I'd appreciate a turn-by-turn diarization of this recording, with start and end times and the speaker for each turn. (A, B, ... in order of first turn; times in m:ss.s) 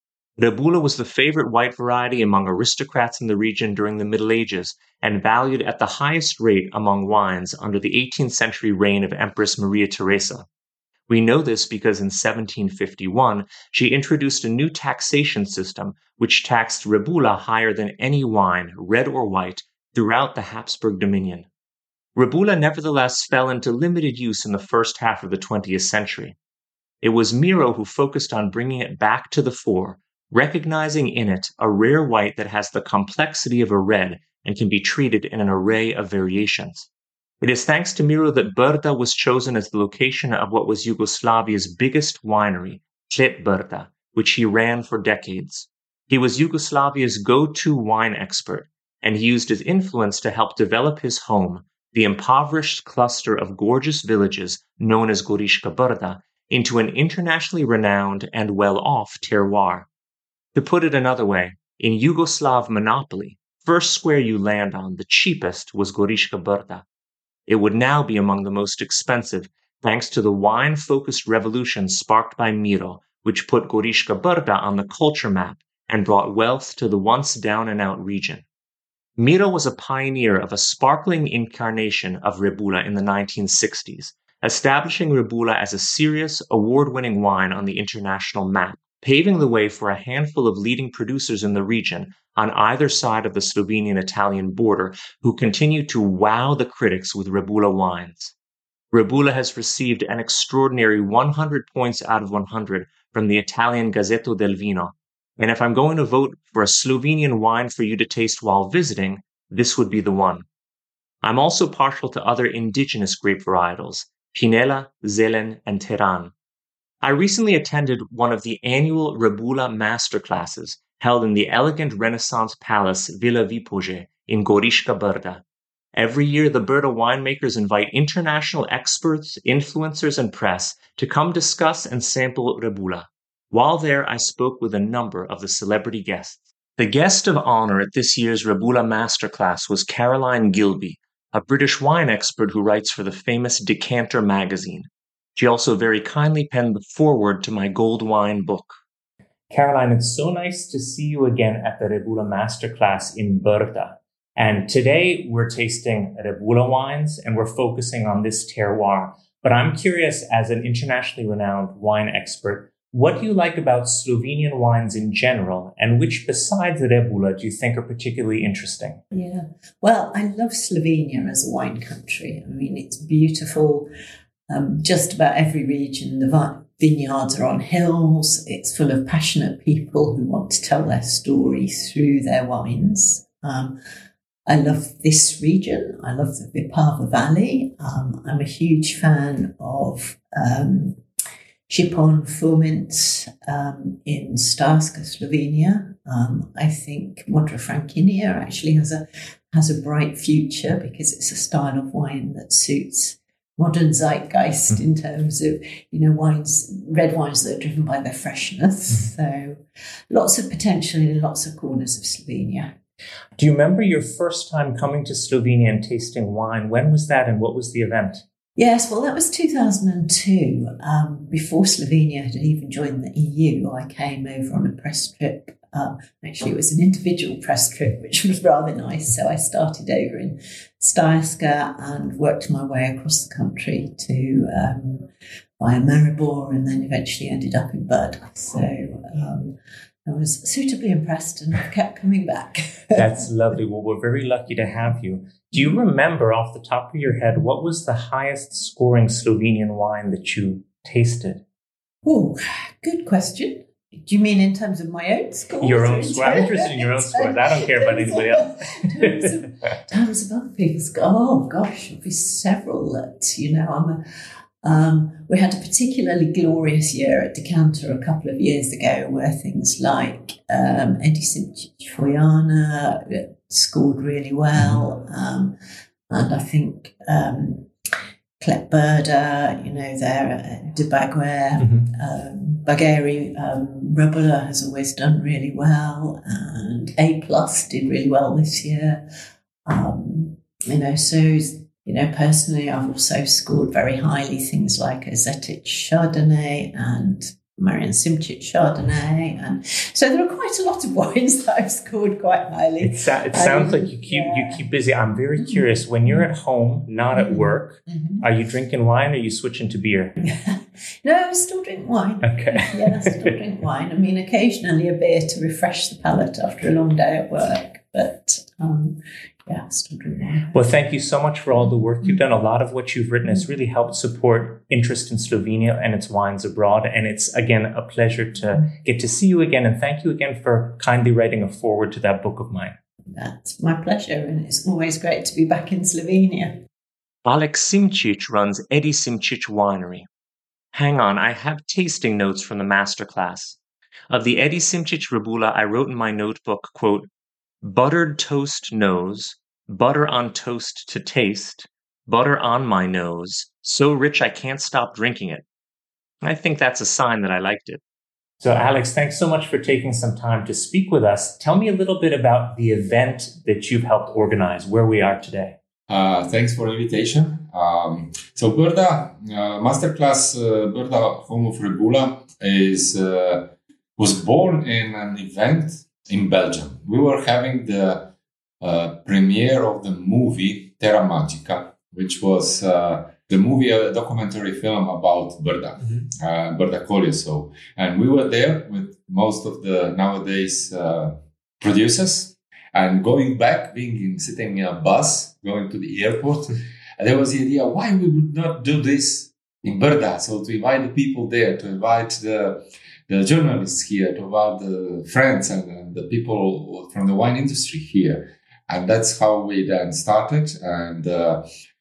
0:00.4-0:10.5 A
0:11.1-0:21.5 A
0:22.1-0:26.4 A
0:27.0-0:36.9 A
0:37.4-0:59.9 A
1:00.5-1:06.8 A
1:07.5-1:18.4 A
1:19.2-1:38.3 A
1:38.9-1:50.4 A
1:51.2-1:56.3 A
1:57.0-2:28.8 A
2:29.5-2:49.0 A
2:49.1-2:53.9 B
2:54.5-3:03.8 B
3:04.5-3:11.0 B
3:11.7-3:32.7 B
3:33.4-3:38.2 A
3:38.6-3:55.1 B
3:55.6-4:03.2 B
4:03.0-4:11.4 A
4:12.0-4:24.0 B
4:15.6-4:19.3 A
4:24.6-4:35.5 B
4:34.5-4:34.8 A
4:36.1-4:37.7 B
4:38.4-4:49.0 B
4:41.6-4:41.9 A
4:49.6-5:04.6 B
5:02.8-5:10.1 A
5:05.4-5:06.3 B
5:07.1-5:08.2 B
5:10.2-5:20.6 B
5:12.2-5:13.3 A
5:20.5-5:32.7 A
5:33.1-5:36.6 B
5:37.2-5:40.1 A
5:40.7-5:43.6 A
5:44.1-5:47.1 A
5:47.6-5:55.4 A
5:56.2-5:57.8 A
5:58.4-6:05.6 A
6:05.9-6:18.1 C
6:18.6-6:51.4 C